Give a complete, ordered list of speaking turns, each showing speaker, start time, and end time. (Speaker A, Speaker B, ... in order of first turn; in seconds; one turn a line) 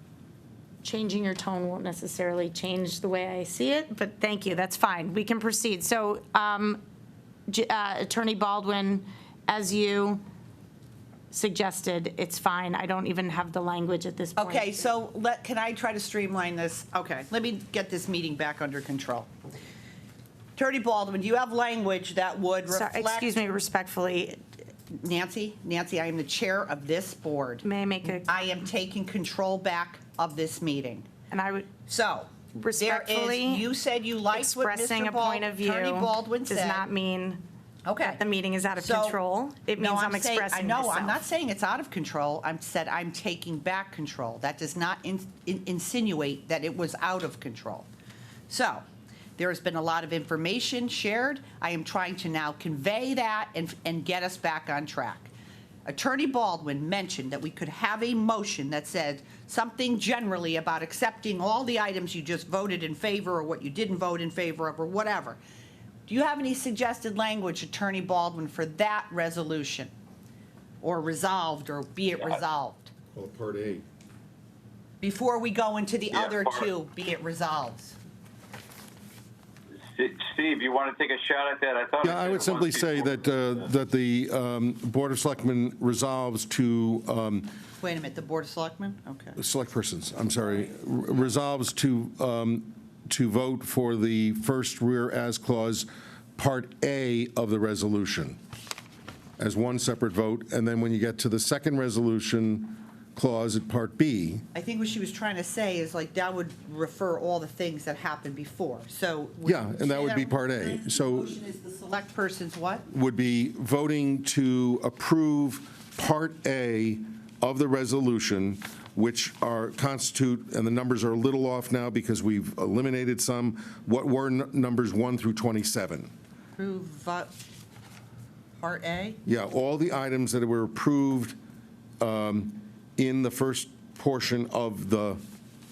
Speaker A: 0.8-6.8
Speaker A: 7.5-10.2
Speaker A: 11.3-14.9
Speaker B: 14.4-19.3
Speaker B: 20.6-23.3
Speaker A: 22.7-24.4
Speaker B: 24.9-31.1
Speaker A: 27.6-28.3
Speaker A: 31.3-31.7
Speaker B: 31.9-36.9
Speaker A: 32.5-33.7
Speaker A: 34.3-37.4
Speaker B: 37.9-38.2
Speaker A: 38.0-41.2
Speaker B: 38.8-39.2
Speaker B: 39.8-47.9
Speaker B: 48.5-48.8
Speaker B: 49.4-55.3
Speaker B: 55.9-65.4
Speaker B: 66.1-69.9
Speaker B: 70.8-72.9
Speaker C: 73.1-73.8
Speaker B: 75.0-78.0
Speaker D: 76.1-76.7
Speaker D: 79.8-83.6
Speaker C: 82.0-87.5
Speaker B: 87.8-89.4
Speaker C: 89.4-98.4
Speaker C: 99.4-104.5
Speaker B: 104.5-112.9
Speaker C: 109.5-111.3
Speaker C: 112.9-126.1
Speaker B: 126.6-127.3
Speaker B: 128.6-129.2
Speaker C: 129.2-131.4
Speaker C: 132.0-135.2